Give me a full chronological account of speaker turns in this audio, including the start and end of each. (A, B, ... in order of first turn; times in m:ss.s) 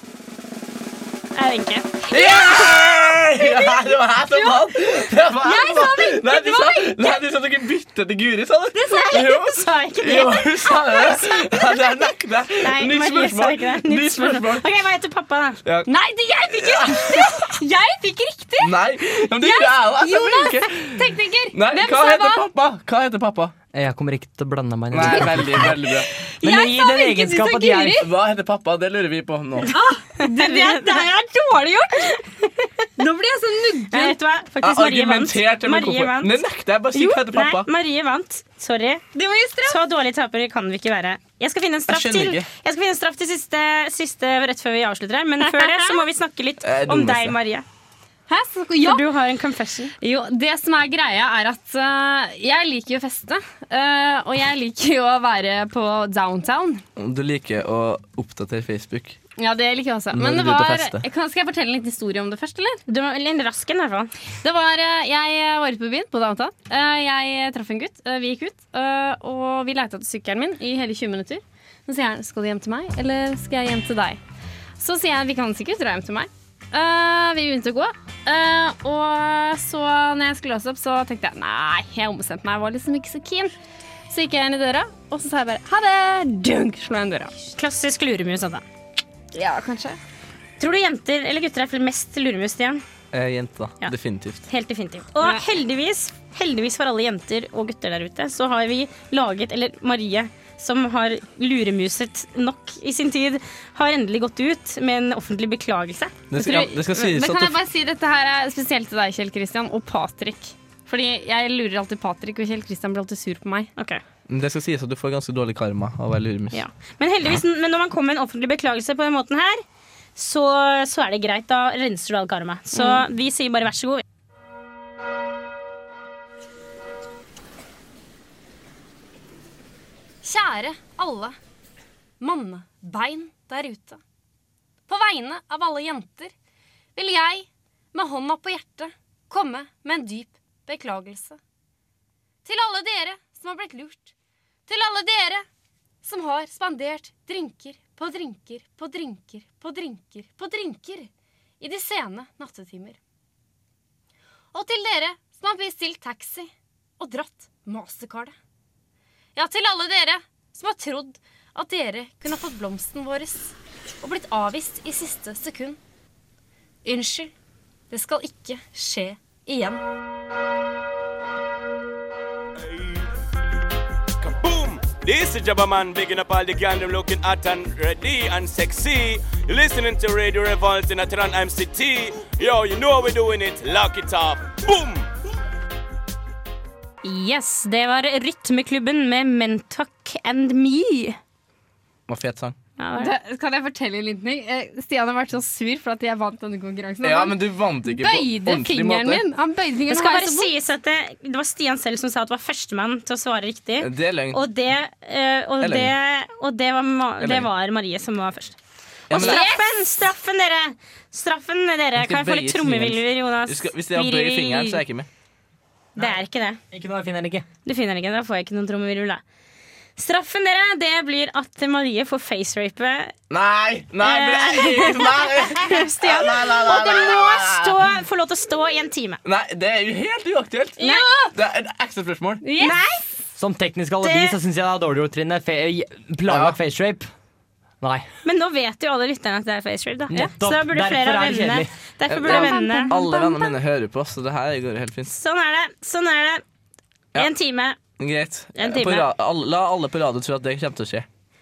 0:01.4-0:02.0 A
0:02.1-0:07.2 B
0:02.1-0:14.6 C
0:08.8-0:09.4 B
0:08.9-0:12.0 A
0:12.6-0:15.6 A
0:15.6-0:15.9 C
0:15.9-0:22.5 B
0:16.5-0:17.5 C
0:18.6-0:23.6 C
0:23.7-0:25.8 D
0:24.9-0:26.1 C
0:26.4-0:28.1 B
0:26.4-0:28.0 D
0:28.0-0:29.7 C
0:29.6-0:32.2 B
0:30.2-0:31.1 A
0:32.4-0:32.9 A
0:33.0-0:34.2 B
0:33.9-0:39.0 A
0:34.6-0:37.7 C
0:39.1-0:39.8 B
0:39.6-0:47.6 A
0:41.9-0:42.5 C
0:45.5-0:46.0 B
0:46.6-0:47.4 C
0:48.3-0:49.1 B
0:48.8-0:50.0 A
0:50.0-0:56.8 B
0:57.0-0:59.2 C
0:59.4-1:02.8 B
1:00.1-1:01.0 C
1:02.9-1:04.1 A
1:04.4-1:14.2 B
1:14.8-1:23.6 B
1:24.1-1:27.3 B
1:27.5-1:28.6 A
1:29.3-1:30.0 B
1:30.6-1:32.8 A
1:33.1-1:34.4 C
1:34.5-1:46.7 A
1:35.2-1:35.4 B
1:46.3-1:47.6 C
1:46.4-1:53.7 B
1:53.8-1:54.0 A
1:54.3-1:56.6 C
1:56.5-1:59.6 A
2:00.2-2:04.0 A
2:02.7-2:03.0 B
2:10.2-2:11.4 B
2:12.2-2:14.0 B
2:14.9-2:16.3 B
2:17.0-2:21.4 B
2:22.4-2:24.1 B
2:24.7-2:25.5 B
2:26.0-2:33.0 B
2:34.5-2:38.4 B
2:39.4-2:45.8 B
2:46.8-2:47.3 B
2:47.9-2:49.8 B
2:52.6-2:53.1 E
2:54.2-3:05.1 E
3:07.0-3:11.2 A
3:12.1-3:12.6 C
3:12.8-3:13.1 A
3:13.0-3:20.5 B
3:17.0-3:19.2 C
3:19.9-3:28.6 A
3:23.8-3:24.4 C
3:25.6-3:25.9 C
3:27.2-3:27.5 C
3:29.1-3:29.4 C
3:29.1-3:34.8 A
3:29.2-3:29.8 B
3:32.0-3:35.1 C
3:36.0-3:36.6 A
3:36.0-3:37.5 D
3:37.7-3:39.2 A
3:40.0-3:43.2 A
3:43.3-3:47.8 C
3:44.0-3:49.2 A
3:49.2-3:52.4 C
3:50.8-3:51.4 B
3:50.8-3:51.1 A
3:52.4-3:52.8 B
3:52.6-3:53.1 A
3:53.4-3:57.1 D
3:54.0-3:54.4 A
3:56.3-3:56.6 C
3:57.8-3:58.1 D
3:58.2-4:03.0 A
4:00.1-4:01.7 D
4:02.1-4:05.1 C
4:02.3-4:03.5 B
4:05.1-4:06.4 A
4:07.2-4:07.8 A
4:08.0-4:11.1 C
4:08.6-4:09.1 A